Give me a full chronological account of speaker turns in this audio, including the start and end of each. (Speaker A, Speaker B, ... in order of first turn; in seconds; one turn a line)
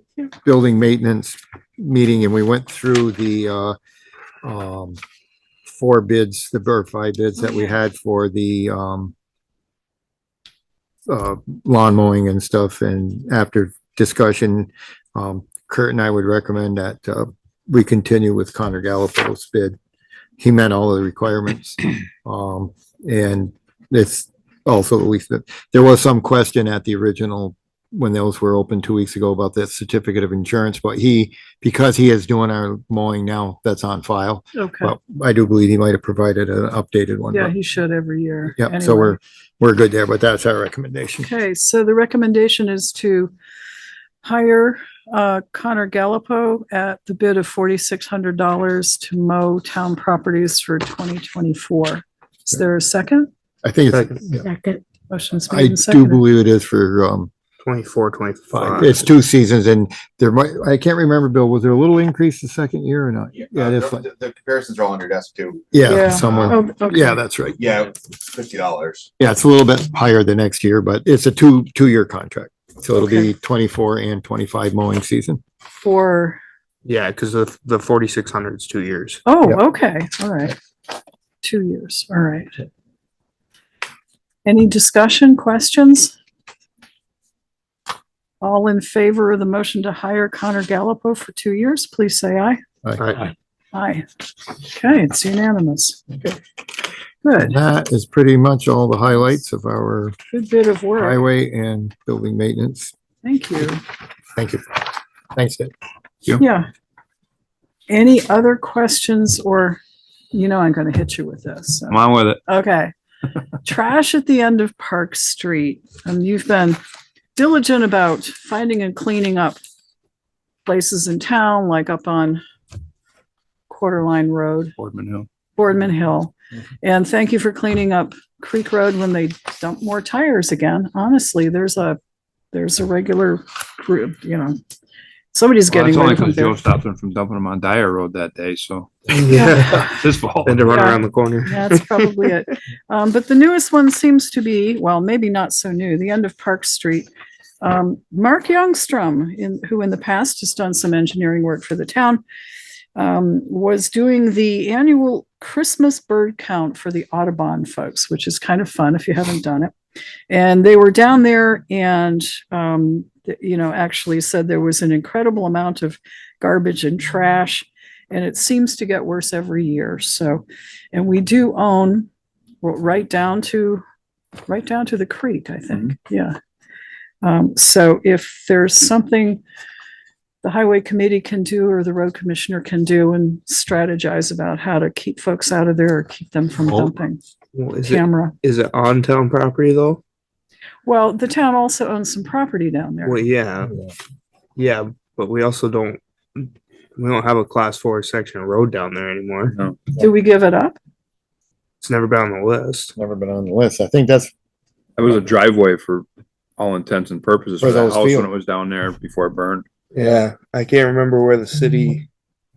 Speaker A: 0.4-3.8
Speaker A: 4.4-5.0
Speaker A: 5.7-9.1
Speaker A: 11.1-19.8
Speaker A: 20.4-37.5
Speaker B: 34.5-35.0
Speaker B: 37.3-39.2
Speaker A: 38.6-41.3
Speaker B: 41.2-43.3
Speaker B: 44.2-53.3
Speaker A: 53.6-54.5
Speaker C: 53.9-54.2
Speaker B: 54.5-56.2
Speaker A: 55.5-57.3
Speaker C: 57.6-59.0
Speaker A: 58.5-64.1
Speaker D: 63.4-65.6
Speaker A: 65.7-67.8
Speaker B: 65.8-67.1
Speaker D: 66.2-66.6
Speaker D: 67.6-69.1
Speaker A: 69.2-75.4
Speaker B: 73.0-73.3
Speaker B: 75.8-76.4
Speaker C: 76.8-79.2
Speaker B: 79.2-80.5
Speaker B: 81.4-82.6
Speaker B: 84.5-86.2
Speaker B: 88.4-92.6
Speaker C: 93.0-93.3
Speaker B: 93.7-94.0
Speaker B: 94.6-96.1
Speaker B: 97.2-97.5
Speaker A: 97.4-100.2
Speaker B: 100.3-101.2
Speaker A: 101.0-102.9
Speaker B: 103.2-103.8
Speaker A: 104.3-104.8
Speaker A: 105.3-105.7
Speaker B: 106.4-106.7
Speaker B: 107.9-109.8
Speaker B: 110.3-112.9
Speaker E: 111.9-112.4
Speaker B: 113.6-116.8
Speaker B: 117.3-119.6
Speaker B: 120.6-122.4
Speaker B: 123.7-124.7
Speaker E: 124.8-125.3
Speaker B: 125.5-132.0
Speaker B: 132.5-134.5
Speaker B: 135.3-136.6
Speaker E: 135.7-140.9
Speaker C: 139.1-139.9
Speaker B: 139.3-139.8
Speaker C: 140.4-142.3
Speaker B: 140.7-147.1
Speaker B: 147.6-152.2
Speaker B: 152.9-159.7
Speaker B: 160.3-172.1
Speaker B: 172.6-173.8
Speaker B: 174.5-176.3
Speaker B: 177.2-179.4
Speaker B: 180.4-187.2
Speaker A: 186.7-186.9
Speaker C: 187.5-190.0
Speaker B: 187.8-188.3
Speaker B: 190.8-193.2
Speaker C: 193.0-193.8
Speaker C: 194.6-199.6
Speaker E: 199.5-199.8
Speaker B: 200.0-200.8
Speaker C: 201.8-202.9
Speaker A: 202.9-204.3
Speaker E: 205.0-206.1
Speaker E: 206.6-209.7
Speaker A: 207.6-208.3
Speaker C: 209.9-212.1